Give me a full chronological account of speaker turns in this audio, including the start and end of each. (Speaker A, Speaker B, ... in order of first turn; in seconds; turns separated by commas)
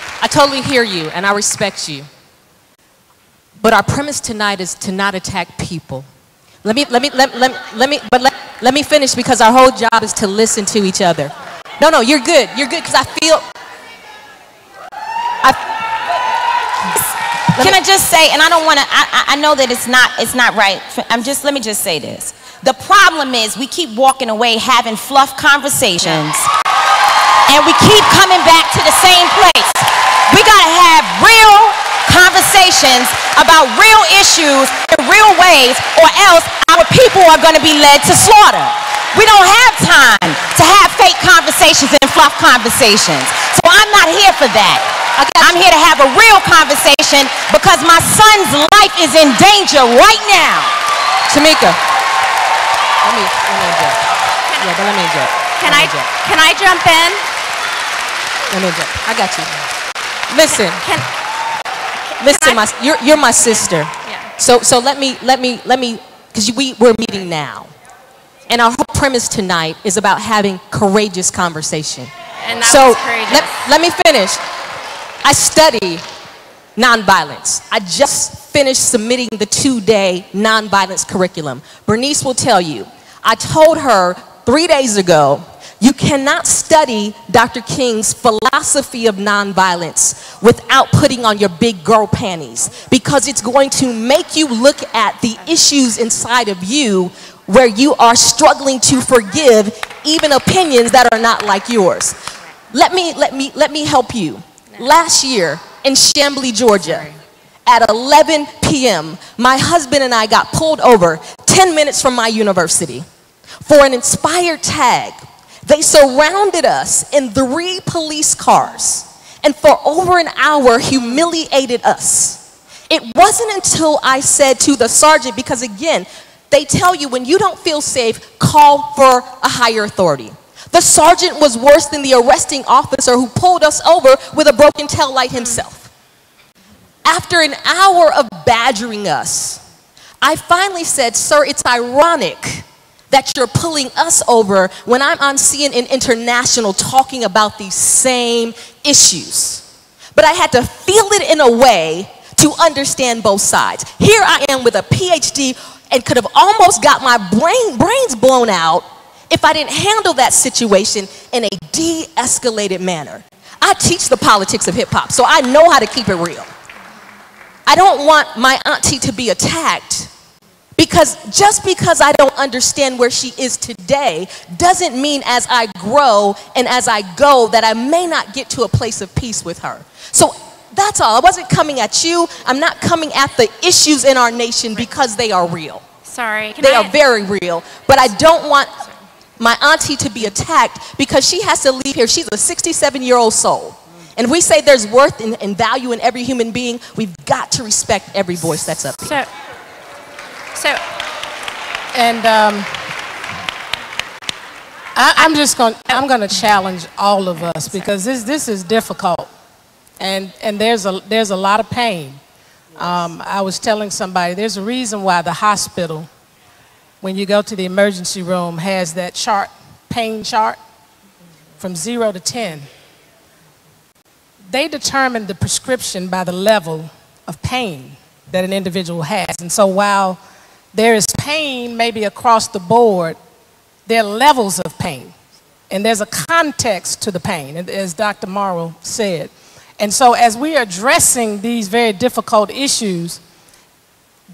Speaker A: 0.2-2.1, Speaker A: 3.6-6.1, Speaker A: 6.6-13.4, Speaker A: 17.0-17.8, Speaker B: 17.6-26.5, Speaker B: 27.5-44.9, Speaker A: 45.2-45.6, Speaker B: 45.4-50.7, Speaker A: 51.3-51.8, Speaker A: 53.0-56.1, Speaker C: 55.6-57.2, Speaker A: 58.5-59.6, Speaker A: 60.3-60.9, Speaker C: 60.5-61.0, Speaker A: 62.2-67.7, Speaker C: 62.2-62.6, Speaker C: 64.0-64.3, Speaker A: 68.5-74.4, Speaker C: 72.4-73.7, Speaker A: 75.2-76.0, Speaker A: 76.8-102.2, Speaker A: 102.7-107.1, Speaker C: 106.8-107.1, Speaker A: 107.7-113.1, Speaker A: 113.6-135.9, Speaker A: 137.0-139.6, Speaker A: 140.2-166.5, Speaker A: 167.7-170.1, Speaker A: 170.8-185.8, Speaker C: 186.0-186.9, Speaker A: 186.6-188.8, Speaker A: 189.4-199.2, Speaker C: 200.6-200.8, Speaker D: 201.9-202.7, Speaker D: 204.9-209.3, Speaker D: 210.0-212.2, Speaker D: 212.8-216.1, Speaker D: 217.0-220.6, Speaker D: 221.6-222.7, Speaker D: 224.5-230.2, Speaker D: 230.7-233.2, Speaker D: 233.9-235.1, Speaker D: 235.7-243.2